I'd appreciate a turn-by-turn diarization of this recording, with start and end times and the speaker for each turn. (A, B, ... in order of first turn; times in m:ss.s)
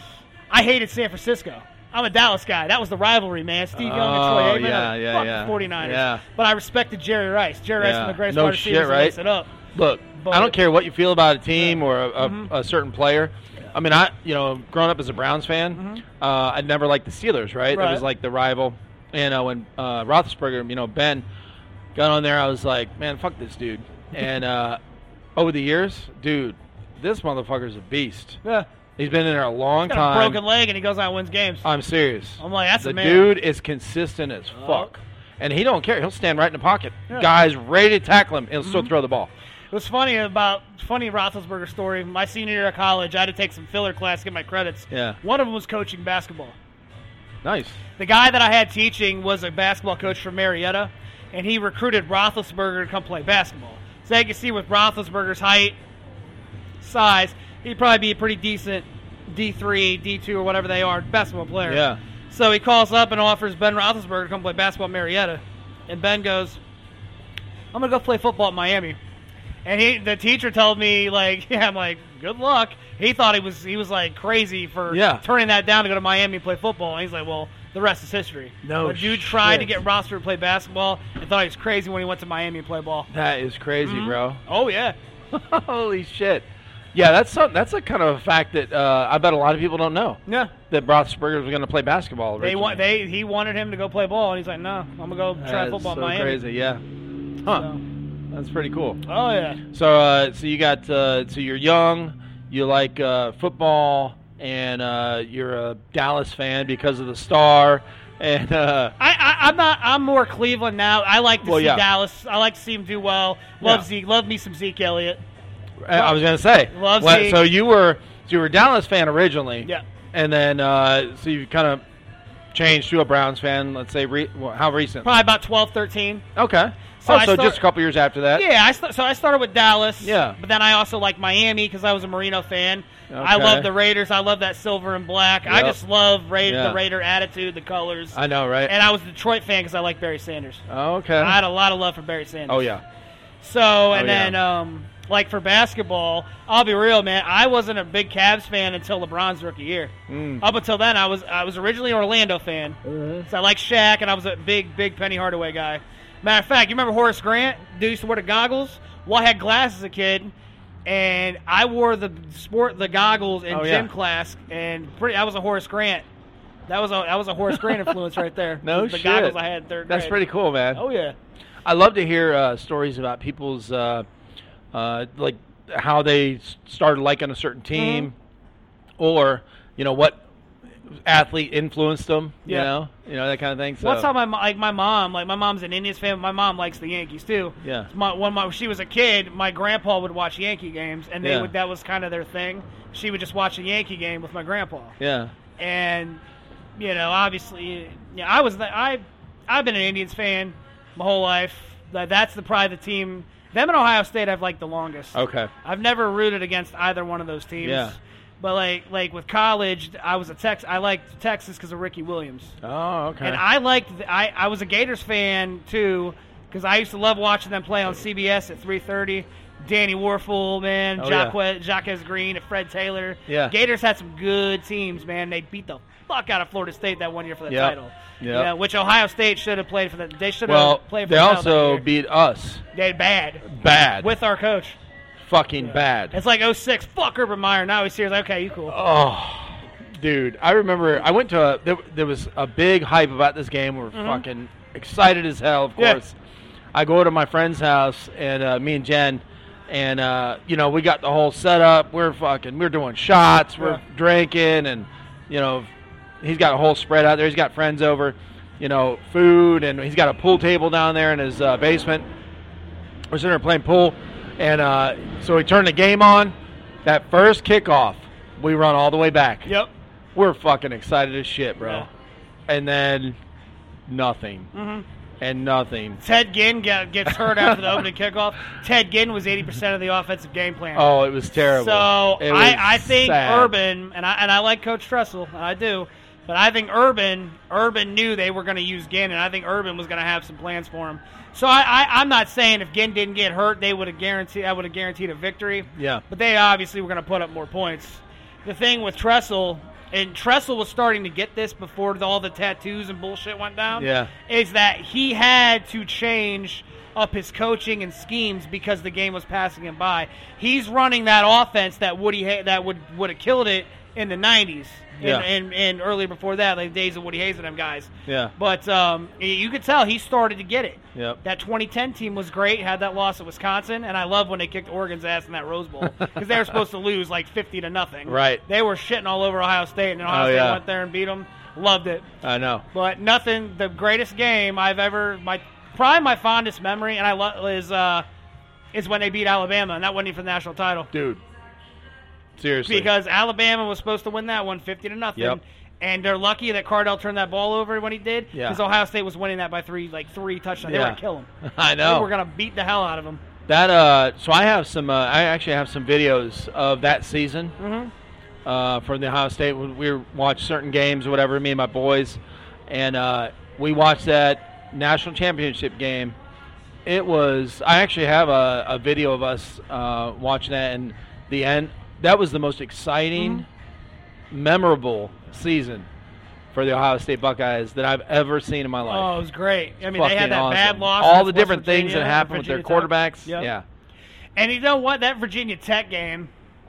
0:00.5-0:09.5 A
0:03.8-0:06.2 B
0:07.8-0:09.2 B
0:09.7-0:21.2 B
0:10.2-0:10.6 A
0:11.6-0:12.5 A
0:15.8-0:16.0 A
0:17.7-0:18.0 A
0:21.9-0:24.8 B
0:25.4-0:28.4 B
0:29.0-0:30.4 B
0:29.9-0:31.6 A
0:31.6-0:39.3 B
0:32.4-0:33.3 A
0:34.5-0:34.9 A
0:38.6-0:38.9 A
0:39.7-0:46.6 A
0:44.9-0:45.2 B
0:47.4-0:47.8 B
0:48.0-0:55.8 A
0:56.8-1:06.6 A
1:01.6-1:02.0 B
1:07.7-1:09.0 A
1:09.6-1:23.1 A
1:14.9-1:15.2 B
1:18.6-1:19.8 B
1:23.1-1:24.4 B
1:23.8-1:25.0 A
1:25.3-1:32.8 B
1:30.3-1:30.5 A
1:32.4-1:36.4 A
1:35.4-1:36.8 B
1:37.4-1:37.7 B
1:37.5-1:37.8 A
1:38.3-1:39.0 B
1:39.0-1:39.6 A
1:39.7-1:48.9 B
1:49.0-1:55.2 A
1:51.4-1:51.8 B
1:53.6-1:53.8 B
1:55.8-2:01.8 B
1:55.9-1:56.2 A
1:56.7-1:57.4 A
2:02.5-2:05.1 B
2:05.0-2:06.2 A
2:06.4-2:08.4 B
2:07.0-2:07.6 A
2:08.3-2:20.6 A
2:10.0-2:10.4 B
2:13.1-2:13.7 B
2:15.4-2:15.8 B
2:16.4-2:16.8 B
2:18.1-2:18.7 B
2:20.7-2:21.4 B
2:21.2-2:22.7 A
2:22.5-2:22.8 B
2:23.4-2:40.3 A
2:23.9-2:24.4 B
2:30.1-2:30.4 B
2:40.8-2:46.0 A
2:43.5-2:43.9 B
2:46.7-2:50.2 A
2:47.5-2:47.9 B
2:48.6-2:49.4 B
2:49.9-2:50.8 B
2:50.7-2:51.2 A
2:51.6-2:54.0 B
2:54.7-2:58.1 B
2:57.7-2:58.1 A
2:59.0-3:00.2 B
3:00.9-3:04.1 B
3:03.8-3:15.0 A
3:07.6-3:07.9 B
3:11.2-3:11.5 B
3:15.0-3:15.3 B
3:15.6-3:16.2 A
3:16.8-3:32.5 A
3:25.1-3:25.5 B
3:27.6-3:28.0 B
3:32.6-3:33.4 B
3:33.2-3:51.8 A
3:41.0-3:41.3 B
3:43.3-3:43.5 B
3:47.5-3:48.5 B
3:50.4-3:52.6 B
3:52.7-3:53.4 A
3:53.4-3:54.1 B
3:54.0-3:54.8 A
3:55.2-3:56.2 B
3:55.6-3:58.8 A
3:58.7-4:06.1 B
4:03.9-4:04.2 A
4:06.7-4:15.7 B
4:16.2-4:22.1 B
4:23.1-4:29.5 B
4:29.4-4:29.7 A
4:30.1-4:31.9 B
4:31.6-4:31.8 A
4:32.5-4:33.2 B
4:33.9-4:34.5 B
4:34.5-4:34.8 A
4:35.2-4:36.0 B
4:36.0-5:32.1 A
4:40.7-4:43.5 B
4:55.8-4:56.0 B
5:03.8-5:04.1 B
5:15.0-5:15.3 B
5:18.0-5:18.3 B
5:20.9-5:21.2 B
5:25.8-5:26.2 B
5:28.1-5:28.4 B
5:30.1-5:30.6 B
5:32.2-5:32.6 B
5:32.7-5:38.0 A
5:38.7-5:40.9 A
5:40.9-5:41.2 B
5:42.4-5:42.9 B
5:42.6-5:51.3 A
5:48.3-5:48.6 B
5:50.6-5:52.1 B
5:51.8-5:53.2 A
5:53.5-5:57.6 B
5:57.6-5:57.9 A
5:58.4-6:06.1 B
6:06.8-6:13.4 B
6:13.2-6:13.4 A
6:14.3-6:15.9 B
6:16.5-6:19.2 B
6:18.8-6:23.5 A
6:19.8-6:23.6 B
6:24.4-6:26.3 A